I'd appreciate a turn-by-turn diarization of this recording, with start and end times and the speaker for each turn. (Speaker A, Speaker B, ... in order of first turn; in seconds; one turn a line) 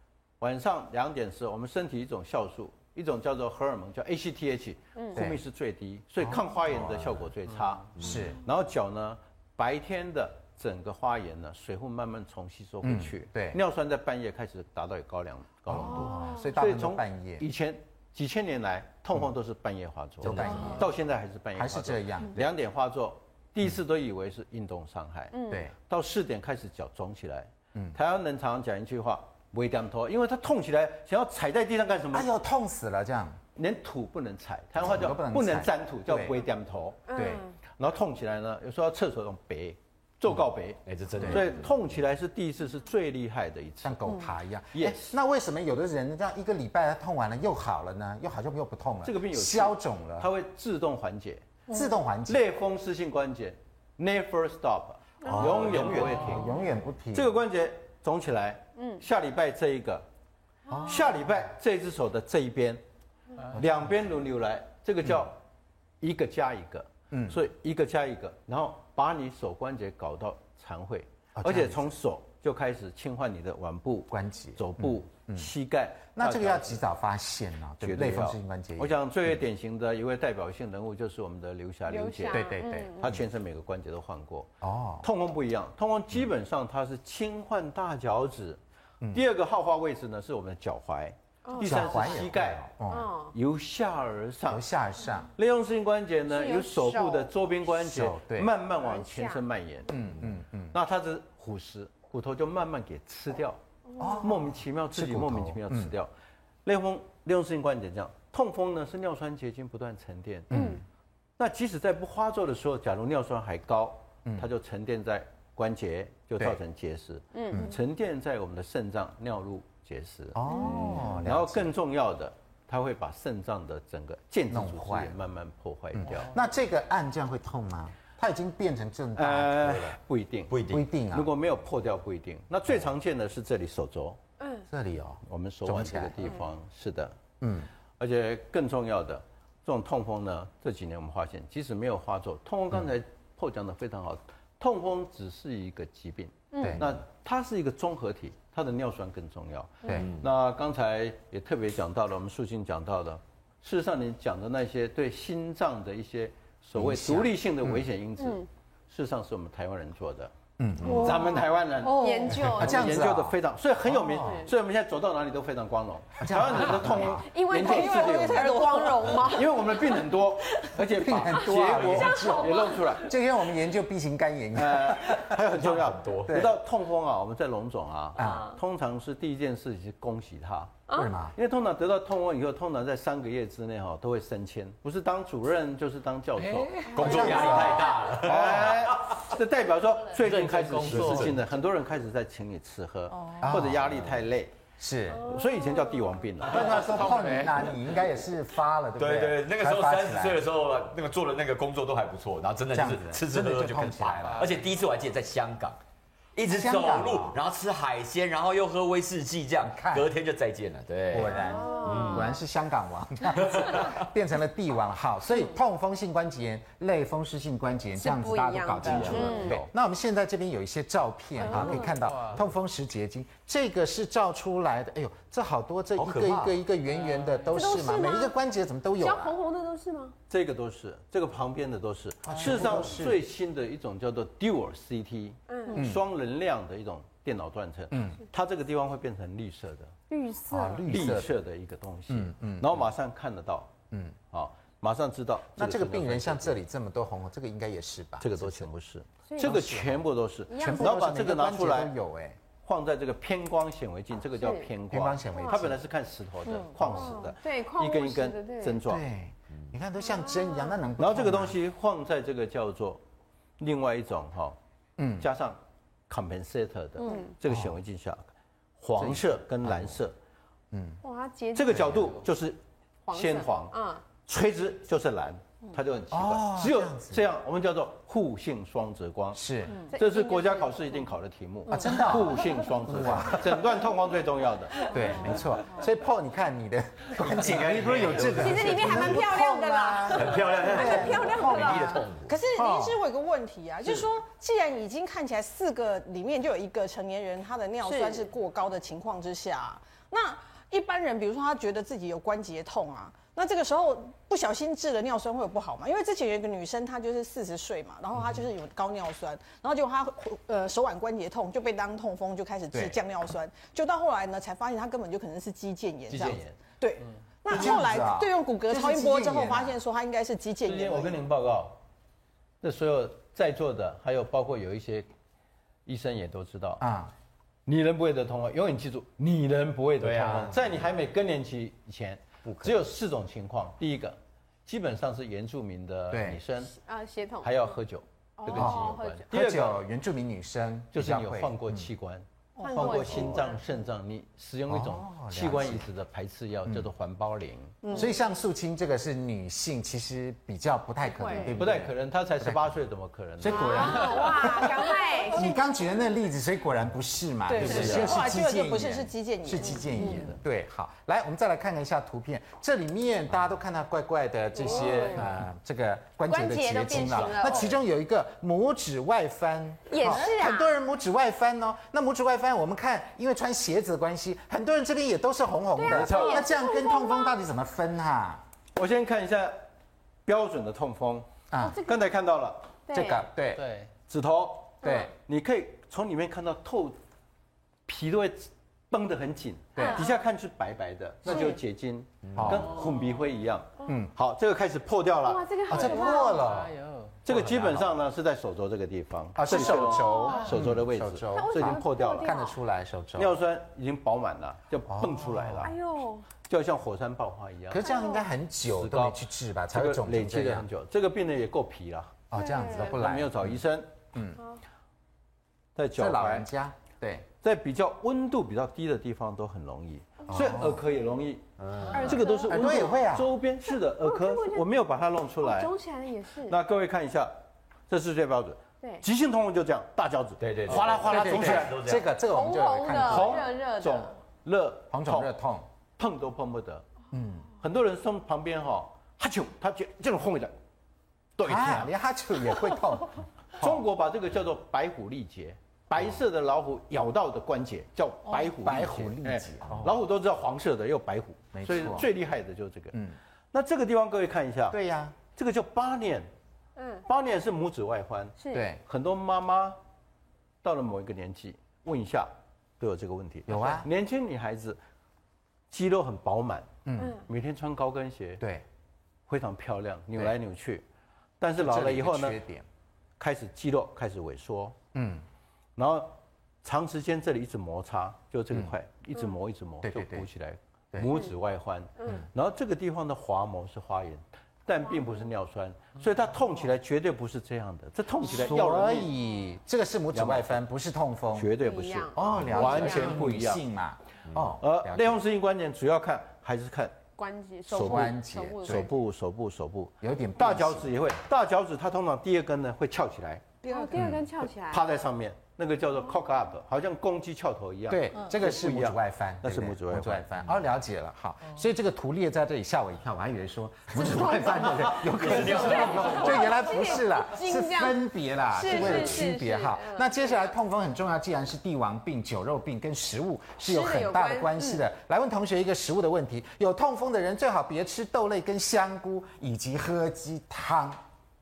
Speaker A: 0.4-32.3
Speaker B: 5.0-5.2
Speaker C: 5.1-5.4
Speaker C: 6.2-7.2
Speaker C: 8.0-8.4
Speaker C: 12.8-13.6
Speaker C: 15.7-17.4
Speaker B: 15.9-16.5
Speaker C: 20.2-20.9
Speaker D: 20.2-20.7
Speaker C: 21.6-22.4
Speaker B: 25.3-25.7
Speaker C: 32.1-33.4
Speaker A: 33.5-37.0
Speaker C: 34.8-36.4
Speaker B: 37.1-37.5
Speaker C: 37.1-37.4
Speaker A: 37.8-44.1
Speaker D: 40.9-41.9
Speaker C: 41.2-41.5
Speaker C: 43.8-50.3
Speaker A: 44.7-45.1
Speaker A: 49.0-51.5
Speaker C: 51.7-52.5
Speaker A: 52.3-56.5
Speaker C: 55.3-57.4
Speaker D: 55.4-55.7
Speaker A: 57.1-60.0
Speaker B: 58.8-59.0
Speaker C: 60.7-61.2
Speaker A: 60.9-62.8
Speaker A: 63.5-65.4
Speaker A: 66.0-76.9
Speaker C: 67.1-67.4
Speaker C: 71.4-72.0
Speaker C: 74.1-75.5
Speaker C: 76.2-79.0
Speaker A: 77.8-88.6
Speaker B: 81.9-83.1
Speaker C: 82.3-83.2
Speaker C: 84.6-85.1
Speaker A: 89.1-92.7
Speaker B: 91.5-92.2
Speaker C: 91.6-93.1
Speaker B: 92.9-93.3
Speaker A: 93.3-94.7
Speaker C: 94.5-95.3
Speaker A: 95.4-103.6
Speaker B: 96.3-97.3
Speaker C: 97.7-98.5
Speaker B: 98.7-99.4
Speaker C: 99.9-100.8
Speaker B: 103.9-104.2
Speaker C: 104.0-105.9
Speaker A: 104.2-106.1
Speaker A: 106.7-110.6
Speaker C: 110.5-110.8
Speaker B: 110.5-110.8
Speaker A: 111.4-126.3
Speaker B: 117.3-117.7
Speaker C: 120.3-121.7
Speaker C: 124.5-125.2
Speaker C: 126.0-130.0
Speaker A: 129.2-134.2
Speaker D: 130.5-130.9
Speaker C: 130.7-131.3
Speaker C: 134.7-136.2
Speaker A: 135.3-137.2
Speaker C: 137.4-137.7
Speaker A: 138.0-160.3
Speaker B: 146.5-146.8
Speaker C: 146.6-146.8
Speaker D: 149.9-150.3
Speaker C: 156.8-157.9
Speaker B: 158.2-158.5
Speaker C: 160.6-161.2
Speaker A: 160.8-173.1
Speaker B: 160.9-163.0
Speaker C: 162.3-164.5
Speaker B: 164.2-164.5
Speaker C: 166.2-167.3
Speaker B: 167.2-170.7
Speaker E: 167.6-169.3
Speaker C: 170.9-175.4
Speaker B: 171.4-172.9
Speaker A: 174.5-180.8
Speaker D: 175.6-176.2
Speaker C: 176.2-176.6
Speaker C: 178.2-178.5
Speaker B: 178.2-178.5
Speaker B: 180.9-181.1
Speaker C: 180.9-181.3
Speaker A: 181.3-194.5
Speaker F: 186.4-186.9
Speaker D: 186.9-189.2
Speaker C: 187.0-187.9
Speaker F: 190.2-191.4
Speaker D: 190.8-191.4
Speaker C: 193.4-193.9
Speaker C: 194.8-195.4
Speaker A: 195.2-196.9
Speaker B: 195.4-196.0
Speaker C: 196.5-200.4
Speaker D: 199.0-205.8
Speaker C: 202.7-204.5
Speaker D: 206.3-212.3
Speaker C: 206.4-207.4
Speaker C: 209.6-210.1
Speaker C: 211.1-229.4
Speaker B: 211.3-212.4
Speaker B: 218.0-219.6
Speaker A: 218.9-219.7
Speaker B: 221.4-221.9
Speaker F: 221.5-222.4
Speaker D: 226.0-226.6
Speaker F: 226.9-227.5
Speaker B: 227.5-228.3
Speaker B: 229.0-230.2
Speaker A: 230.3-239.9
Speaker C: 232.2-233.2
Speaker B: 235.5-235.8
Speaker C: 235.7-236.0
Speaker C: 237.9-238.2
Speaker B: 240.1-240.9
Speaker C: 240.5-241.3
Speaker A: 240.9-243.7
Speaker C: 242.1-242.9
Speaker A: 244.3-246.6
Speaker C: 245.6-248.7
Speaker A: 248.2-251.9
Speaker B: 249.3-249.6
Speaker C: 249.4-252.4
Speaker B: 250.5-251.0
Speaker A: 252.6-259.0
Speaker B: 254.4-254.7
Speaker C: 254.9-255.8
Speaker B: 255.3-255.7
Speaker B: 256.8-258.8
Speaker C: 258.8-261.6
Speaker B: 260.1-260.8
Speaker A: 261.0-263.0
Speaker A: 263.6-264.6
Speaker C: 265.0-265.3
Speaker A: 265.2-270.1
Speaker B: 267.0-267.4
Speaker C: 267.5-267.7
Speaker C: 269.0-270.0
Speaker C: 270.7-271.0
Speaker B: 271.0-271.8
Speaker A: 271.5-284.9
Speaker C: 271.8-272.1
Speaker B: 273.1-274.0
Speaker C: 276.1-277.2
Speaker C: 279.3-279.9
Speaker B: 279.8-280.9
Speaker B: 281.7-282.7
Speaker C: 281.7-283.6
Speaker B: 284.8-285.7
Speaker C: 284.9-293.0
Speaker D: 287.2-289.3
Speaker B: 288.3-292.0
Speaker D: 290.1-292.4
Speaker E: 290.8-291.4
Speaker E: 292.3-321.2
Speaker B: 297.8-298.3
Speaker C: 312.7-313.0
Speaker A: 316.1-316.6
Speaker C: 317.5-319.8
Speaker A: 320.6-321.8
Speaker A: 322.6-325.1
Speaker A: 325.9-326.8
Speaker C: 326.8-327.1
Speaker A: 327.7-336.7
Speaker D: 330.0-330.9
Speaker D: 332.4-332.8
Speaker C: 336.1-336.4
Speaker B: 336.7-337.8
Speaker A: 337.4-339.8
Speaker B: 338.4-339.3
Speaker C: 338.5-341.9
Speaker A: 340.9-347.8
Speaker B: 342.6-343.6
Speaker E: 342.6-343.1
Speaker C: 344.7-345.9
Speaker C: 347.9-352.7
Speaker B: 351.1-351.5
Speaker A: 351.6-354.3
Speaker C: 353.4-378.4
Speaker B: 353.5-355.6
Speaker E: 357.5-360.3
Speaker A: 357.6-358.1
Speaker D: 357.7-358.0
Speaker B: 364.6-365.2
Speaker B: 366.3-367.8
Speaker B: 369.9-370.8
Speaker B: 375.8-377.4
Speaker A: 375.9-376.4
Speaker A: 378.8-379.6
Speaker A: 380.3-382.7
Speaker C: 381.5-381.8
Speaker B: 382.9-383.3
Speaker C: 382.9-383.6
Speaker F: 383.6-383.9
Speaker A: 384.1-387.0
Speaker C: 384.8-385.1
Speaker A: 387.9-395.9
Speaker C: 389.8-390.0
Speaker B: 389.8-390.2
Speaker B: 391.3-391.6
Speaker D: 392.3-392.6
Speaker C: 392.4-392.7
Speaker C: 393.9-394.1
Speaker B: 395.2-396.5
Speaker C: 395.7-396.7
Speaker F: 395.8-397.2
Speaker A: 397.2-402.4
Speaker C: 399.4-403.4
Speaker B: 399.5-400.5
Speaker B: 401.3-402.6
Speaker A: 403.2-405.8
Speaker C: 404.9-405.7
Speaker B: 405.6-406.3
Speaker A: 406.5-407.9
Speaker C: 407.7-410.7
Speaker B: 407.9-408.2
Speaker A: 408.7-413.9
Speaker C: 412.3-413.5
Speaker B: 412.3-412.9
Speaker C: 414.1-414.4
Speaker A: 415.8-416.5
Speaker C: 416.0-417.2
Speaker A: 417.4-425.8
Speaker C: 420.3-420.8
Speaker D: 421.6-422.2
Speaker B: 421.9-422.9
Speaker C: 422.5-423.3
Speaker B: 424.0-424.7
Speaker B: 425.4-426.6
Speaker A: 426.4-427.3
Speaker A: 427.9-431.8
Speaker D: 430.4-432.2
Speaker C: 430.9-433.4
Speaker B: 432.2-434.2
Speaker A: 433.0-435.4
Speaker C: 434.9-435.7
Speaker A: 436.0-436.9
Speaker C: 437.1-437.5
Speaker A: 437.6-440.5
Speaker A: 441.4-441.9
Speaker C: 441.4-443.8
Speaker A: 443.6-453.0
Speaker C: 448.4-449.9
Speaker C: 451.5-452.1
Speaker A: 453.5-454.8
Speaker C: 454.7-455.2
Speaker A: 455.3-456.3
Speaker B: 456.8-457.1
Speaker A: 457.1-459.8
Speaker B: 458.4-458.7
Speaker C: 458.5-458.8
Speaker A: 460.6-464.8
Speaker C: 463.5-463.9
Speaker A: 465.7-468.4
Speaker C: 466.9-467.2
Speaker B: 467.0-467.2
Speaker A: 469.3-470.8
Speaker A: 471.4-472.4
Speaker C: 471.6-472.6
Speaker A: 473.2-474.8
Speaker C: 474.9-475.2
Speaker A: 475.8-489.1
Speaker C: 479.8-480.3
Speaker C: 488.2-491.5
Speaker A: 490.1-490.6
Speaker A: 491.4-493.6
Speaker B: 491.6-493.1
Speaker C: 492.1-495.2
Speaker D: 494.3-494.6
Speaker A: 494.6-497.0
Speaker B: 497.2-499.0
Speaker C: 497.7-498.9
Speaker A: 497.7-503.5
Speaker C: 500.0-500.9
Speaker B: 503.6-504.9
Speaker E: 503.7-504.1
Speaker A: 504.7-510.3
Speaker C: 507.9-531.0
Speaker B: 514.0-520.3
Speaker D: 515.0-516.6
Speaker B: 523.6-524.8